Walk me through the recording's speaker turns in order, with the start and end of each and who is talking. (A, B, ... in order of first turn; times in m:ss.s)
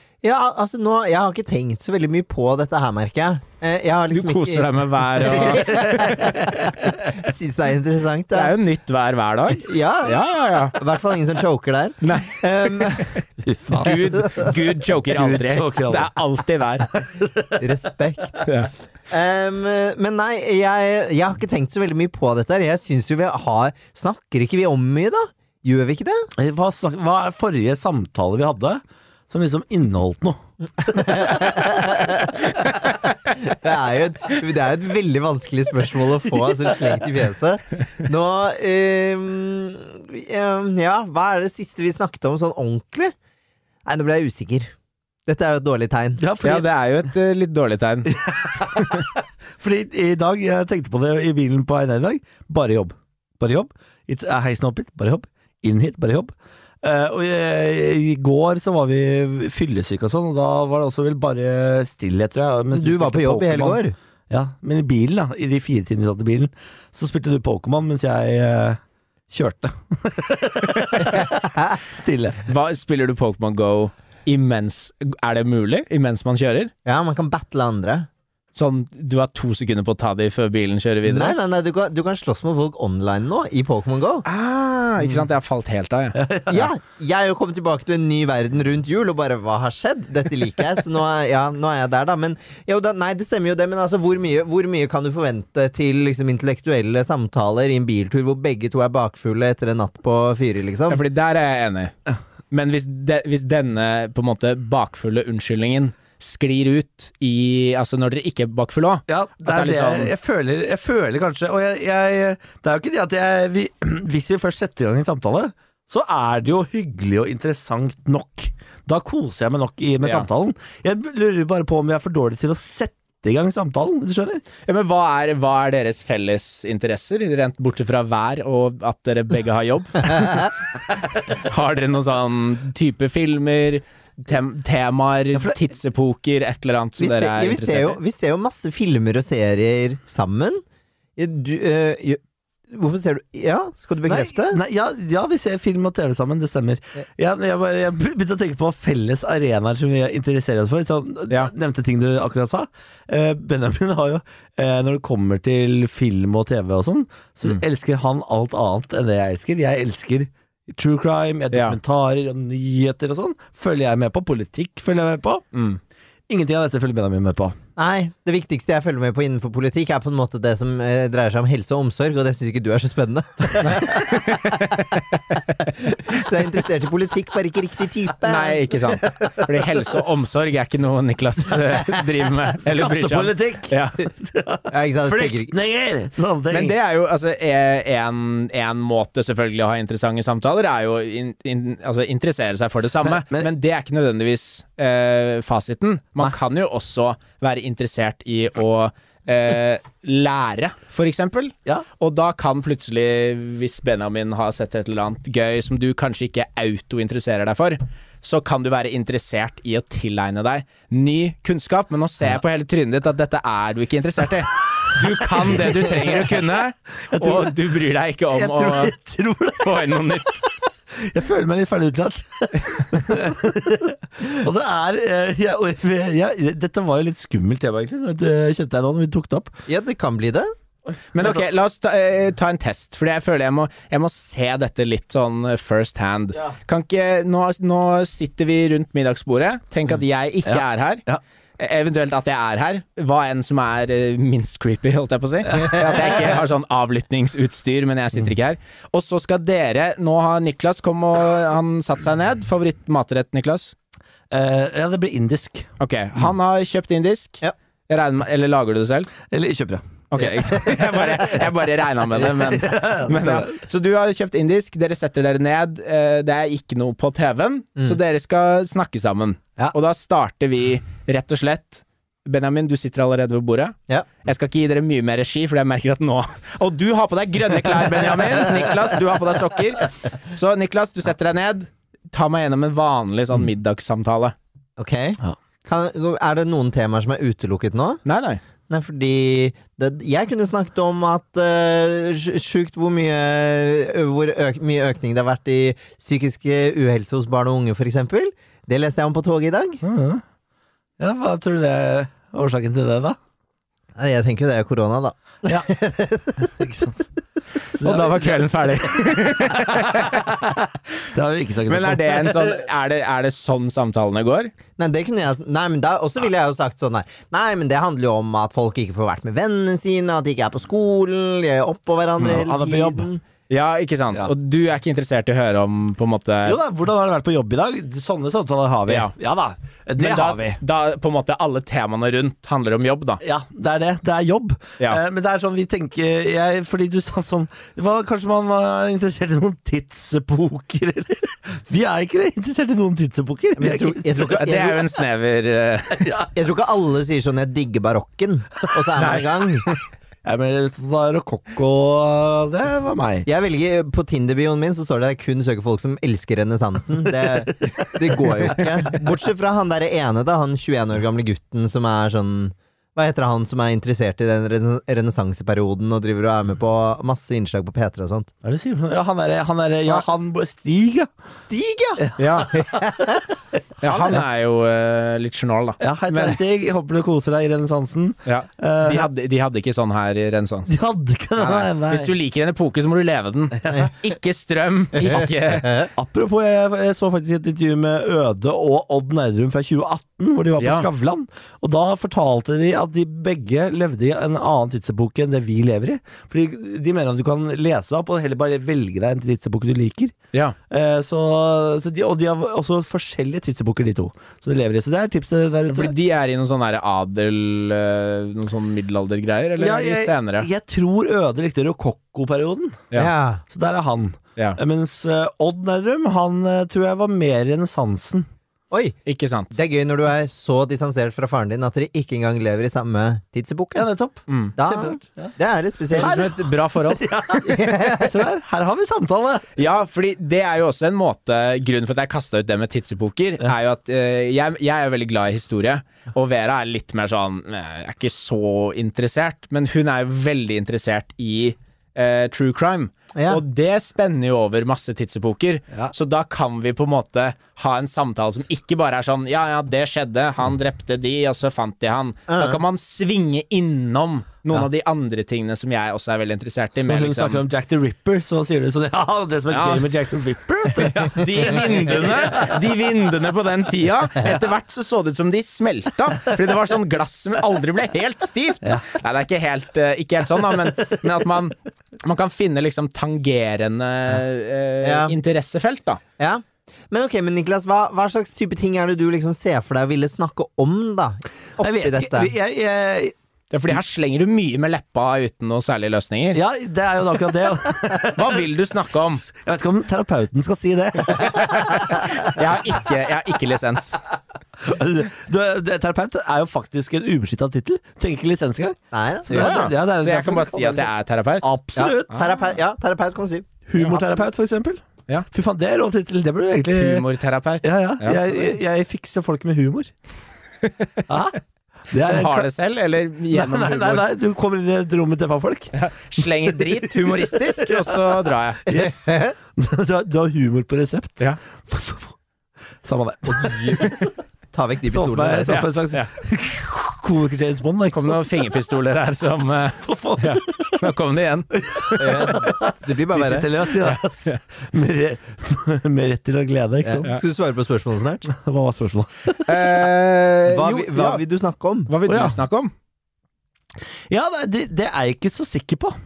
0:00.2-0:08.5 A
0:04.1-0:06.9 B
0:05.5-0:06.2 C
0:08.3-0:10.8 B
0:09.6-0:10.2 A
0:10.7-0:13.1 A
0:12.0-0:13.2 B
0:13.4-0:14.0 C
0:13.7-0:16.9 B
0:13.8-0:14.5 A
0:15.1-0:16.1 C
0:17.2-0:17.6 C
0:17.6-0:18.5 A
0:18.4-0:18.7 B
0:19.1-0:26.3 A
0:26.4-0:31.6 C
0:30.8-0:43.1 A
0:32.6-0:33.1 B
0:43.8-0:44.7 A
0:45.3-0:46.2 A
0:46.2-0:46.7 C
0:46.4-0:49.1 B
0:48.1-0:56.3 C
0:56.8-1:08.8 C
1:02.7-1:04.0 A
1:09.3-1:12.4 C
1:10.8-1:11.2 B
1:11.4-1:11.8 A
1:12.4-1:16.7 B
1:16.9-1:18.1 A
1:18.5-1:21.4 B
1:21.0-1:24.2 A
1:24.3-1:26.2 B
1:26.2-1:26.7 C
1:26.5-1:41.0 A
1:40.9-1:42.0 B
1:42.5-1:50.1 B
1:49.1-2:04.4 C
2:00.0-2:00.3 B
2:04.7-2:10.5 B
2:11.2-2:18.0 B
2:17.0-2:20.6 A
2:21.2-2:24.6 A
2:24.1-2:45.5 C
2:41.5-2:41.8 B
2:45.5-2:45.8 B
2:46.3-2:47.6 C
2:47.8-2:54.6 A
2:53.8-2:56.2 B
2:55.8-2:59.5 A
2:58.2-3:04.0 B
3:02.6-3:06.8 C
3:04.7-3:05.5 A
3:06.5-3:38.9 B
3:13.0-3:13.5 C
3:35.5-3:36.2 C
3:37.1-3:37.6 C
3:38.3-3:40.1 C
3:39.6-3:40.4 B
3:41.0-3:49.5 C
3:49.7-3:50.5 A
3:51.1-4:01.0 B
4:00.5-4:01.2 C
4:01.6-4:13.8 B
4:05.5-4:06.2 C
4:14.3-4:15.7 C
4:15.8-4:19.1 B
4:19.3-4:19.8 C
4:20.1-4:44.4 B
4:20.6-4:21.4 C
4:22.2-4:23.6 C
4:44.8-4:48.0 A
4:48.0-4:48.4 B
4:48.7-4:59.8 A
4:59.8-5:00.2 C
5:01.0-5:03.2 C
5:04.0-5:06.5 A
5:05.4-5:05.7 C
5:06.4-5:07.0 C
5:07.8-5:10.6 C
5:07.8-5:10.3 B
5:11.1-5:12.6 C
5:11.7-5:14.5 B
5:14.8-5:23.2 A
5:22.2-5:23.1 C
5:23.5-5:26.6 B
5:26.4-5:30.6 C
5:28.9-5:29.1 B
5:30.0-5:33.2 B
5:33.2-5:44.4 C
5:43.6-5:44.8 A
5:44.2-5:46.1 B
5:45.9-5:46.3 C
5:46.3-5:49.7 A
5:48.7-5:49.2 C
5:49.0-5:49.7 B
5:50.2-5:53.3 C
5:53.3-6:08.3 A
5:57.6-5:58.4 C
6:08.4-6:11.1 C
6:11.3-6:12.0 A
6:12.0-6:12.7 C
6:12.2-6:12.7 B
6:12.6-6:13.2 A
6:13.8-6:16.4 B
6:15.8-6:19.1 C
6:18.3-6:20.7 B
6:20.7-6:22.1 C
6:21.4-6:25.9 B
6:25.0-6:25.9 A
6:26.0-6:40.1 C
6:30.6-6:30.9 B
6:40.7-6:45.9 C
6:45.7-6:50.5 B
6:49.6-6:52.9 C
6:52.9-6:53.4 A
6:53.5-6:58.3 C
6:58.7-6:59.0 A
6:59.1-6:59.6 B
6:59.5-7:03.9 A
7:03.8-7:05.3 C
7:04.3-7:04.5 B
7:04.6-7:06.3 A
7:05.9-7:07.1 B
7:06.0-7:09.5 C
7:07.4-7:08.2 A
7:09.6-7:37.4 B
7:23.2-7:23.4 A
7:32.3-7:32.6 A
7:36.8-7:42.6 C
7:39.5-7:39.9 B
7:40.7-7:56.0 B
7:54.8-7:55.2 A
7:56.2-8:02.3 A
8:01.6-8:03.1 C
8:03.5-8:06.4 B
8:06.3-8:11.8 C
8:08.0-8:09.2 B
8:11.0-8:14.0 B
8:14.6-8:20.9 C
8:18.9-8:19.7 A
8:19.3-8:21.5 B
8:21.4-8:22.3 C
8:21.8-8:23.6 A
8:23.7-8:27.1 C
8:26.7-8:28.5 B
8:27.6-8:29.9 C
8:31.1-8:31.4 C
8:31.9-8:32.5 C
8:32.0-8:34.0 B
8:33.3-8:42.2 C
8:35.7-8:38.7 B
8:38.7-8:39.4 A
8:42.8-8:43.9 C
8:43.3-8:43.9 A
8:43.8-8:44.1 B
8:44.5-8:45.6 A
8:44.9-8:48.4 C
8:45.4-8:46.1 B
8:47.9-8:52.5 B
8:49.8-8:50.8 C
8:51.6-8:57.1 C
8:52.0-8:53.5 A
8:53.8-8:54.4 B
8:56.8-8:58.3 A
8:58.3-8:59.8 C
8:59.4-9:01.2 B
9:00.5-9:01.9 A
9:01.9-9:02.7 B
9:02.1-9:02.4 C
9:04.1-9:06.0 C